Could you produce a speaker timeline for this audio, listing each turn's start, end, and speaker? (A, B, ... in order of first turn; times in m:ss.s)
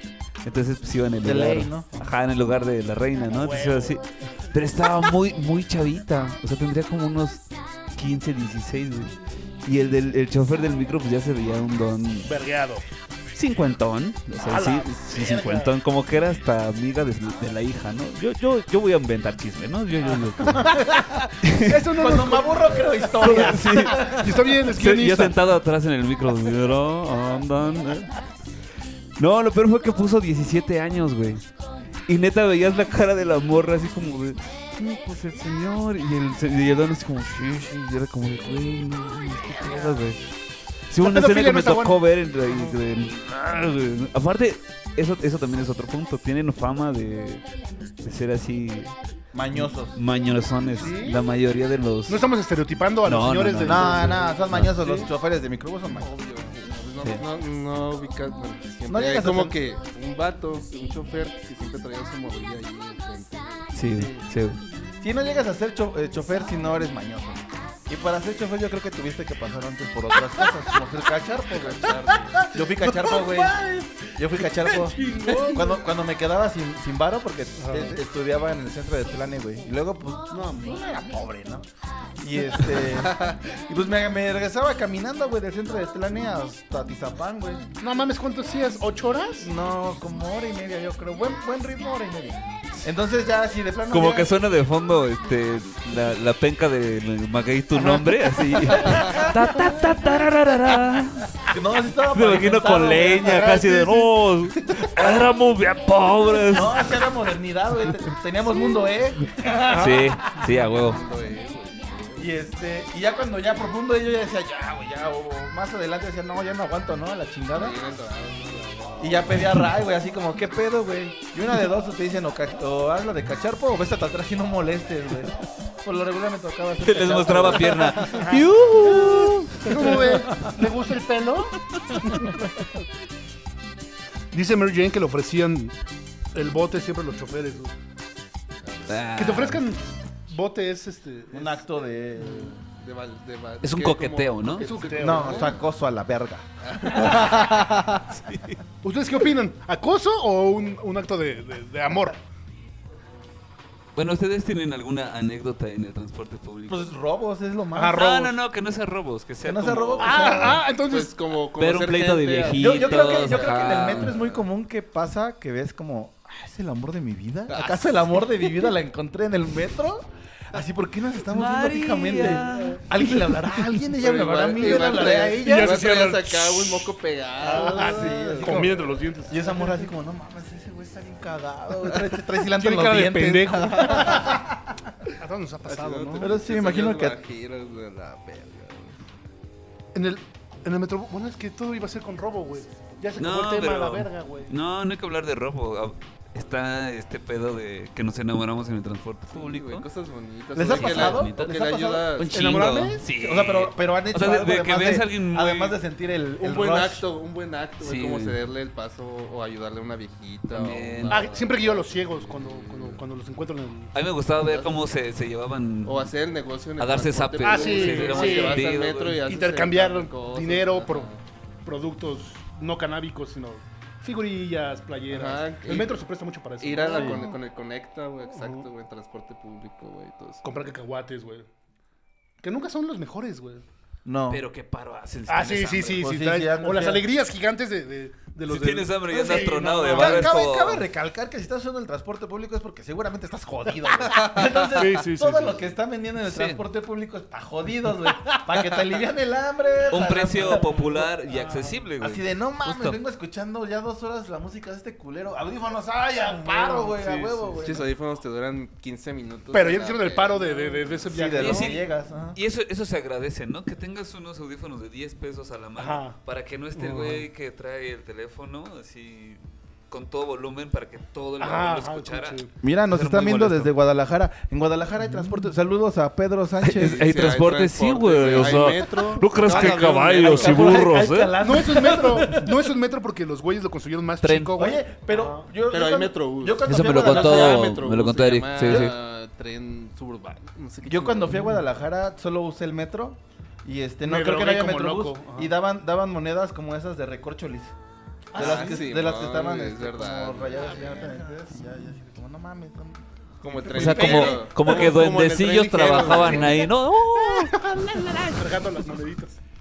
0:00.4-0:12.3 A
0:01.2-0:01.9 B
0:03.3-0:04.0 C
0:12.2-0:12.8 C
0:13.3-0:20.8 A
0:14.5-0:15.7 C
0:20.5-0:21.2 B
0:21.4-0:21.9 A
0:21.6-0:25.4 C
0:21.9-0:24.3 B
0:23.1-0:28.2 A
0:29.2-0:31.5 A
0:32.1-0:40.3 A
0:40.9-0:47.4 A
0:41.0-0:42.0 C
0:42.5-0:42.8 C
0:48.0-0:48.9 A
0:49.3-0:50.0 B
0:49.5-0:52.2 A
0:50.8-0:51.2 C
0:52.1-0:55.1 C
0:53.0-0:54.7 A
0:53.6-0:56.1 B
0:55.9-1:03.7 D
0:58.9-0:59.6 B
1:03.7-1:04.6 A
1:03.9-1:04.3 B
1:05.0-1:21.7 B
1:11.5-1:12.5 D
1:13.0-1:13.4 C
1:14.6-1:15.9 C
1:17.6-1:18.0 C
1:20.3-1:20.9 C
1:22.2-1:27.6 B
1:22.9-1:23.4 D
1:27.8-1:29.5 C
1:29.4-1:34.4 B
1:33.9-1:41.3 A
1:37.8-1:38.1 C
1:38.8-1:39.4 B
1:41.5-1:43.7 B
1:42.1-1:47.0 A
1:43.1-1:44.1 C
1:46.5-1:50.1 B
1:49.7-1:50.1 C
1:49.7-1:51.0 A
1:50.4-1:52.3 D
1:52.2-1:57.8 B
1:57.5-1:59.4 D
1:59.0-2:08.4 B
2:06.8-2:10.3 A
2:08.1-2:08.4 C
2:09.6-2:12.7 C
2:14.3-2:15.7 C
2:16.3-2:17.7 C
2:18.6-2:19.1 D
2:18.9-2:19.6 A
2:19.2-2:21.6 C
2:21.3-2:22.6 B
2:22.6-2:25.6 D
2:23.6-2:24.7 A
2:24.5-2:25.6 C
2:25.0-2:28.0 B
2:26.6-2:27.3 D
2:28.1-2:28.6 A
2:28.8-2:32.2 C
2:34.0-2:37.0 A
2:36.7-2:38.1 B
2:37.7-2:38.3 C
2:38.0-2:40.6 A
2:39.4-2:40.6 B
2:40.0-2:41.2 C
2:40.7-2:44.4 D
2:41.6-2:44.2 A
2:42.5-2:56.0 B
2:47.5-2:48.7 D
2:51.3-2:52.8 A
2:52.4-2:52.8 C
2:54.0-2:58.7 D
2:54.6-2:56.9 C
2:57.4-2:59.9 C
2:57.4-3:04.9 B
3:02.5-3:04.4 C
3:05.2-3:06.3 C
3:05.6-3:09.0 D
3:06.2-3:07.2 B
3:09.9-3:14.5 C
3:13.2-3:19.9 A
3:19.3-3:22.6 D
3:20.6-3:22.2 B
3:20.7-3:21.6 A
3:22.2-3:25.8 A
3:22.3-3:23.0 C
3:23.0-3:27.0 B
3:26.4-3:33.0 D
3:27.8-3:28.4 A
3:30.5-3:31.3 A
3:31.1-3:33.9 C
3:33.9-3:36.1 A
3:34.4-3:34.8 D
3:35.8-3:41.2 D
3:36.8-3:39.2 A
3:37.4-3:38.7 C
3:39.2-3:41.1 C
3:41.6-3:47.4 C
3:45.1-3:46.0 D
3:46.6-3:50.4 D
3:46.9-3:47.4 B
3:48.3-3:48.7 C
3:50.4-3:51.5 C
3:52.4-3:53.6 C
3:54.0-3:54.4 B
3:54.3-3:56.1 A
3:55.3-4:00.4 C
3:56.0-3:57.0 B
3:58.5-4:00.9 A
3:59.1-4:11.2 B
4:04.1-4:04.7 D
4:04.6-4:05.6 C
4:06.2-4:06.6 A
4:09.9-4:13.0 A
4:12.0-4:17.9 B
4:16.3-4:17.0 C
4:17.6-4:21.1 D
4:19.5-4:21.8 C
4:21.1-4:22.4 B
4:21.4-4:33.7 A
4:25.8-4:26.2 C
4:26.8-4:27.3 C
4:31.4-4:32.5 C
4:32.6-4:37.3 B
4:36.6-4:41.4 A
4:36.8-4:40.8 D
4:39.4-4:42.5 B
4:41.4-4:45.5 C
4:44.2-4:44.5 A
4:44.6-4:47.8 B
4:45.7-4:51.4 D
4:46.7-4:48.9 A
4:48.6-4:48.9 B
4:50.8-4:57.7 B
4:54.0-4:55.5 C
4:58.3-5:04.5 B
4:58.3-5:00.9 D
4:58.4-4:58.8 C
5:03.4-5:06.6 D
5:03.7-5:07.6 A
5:03.9-5:04.9 C
5:05.9-5:06.7 C
5:07.4-5:09.4 C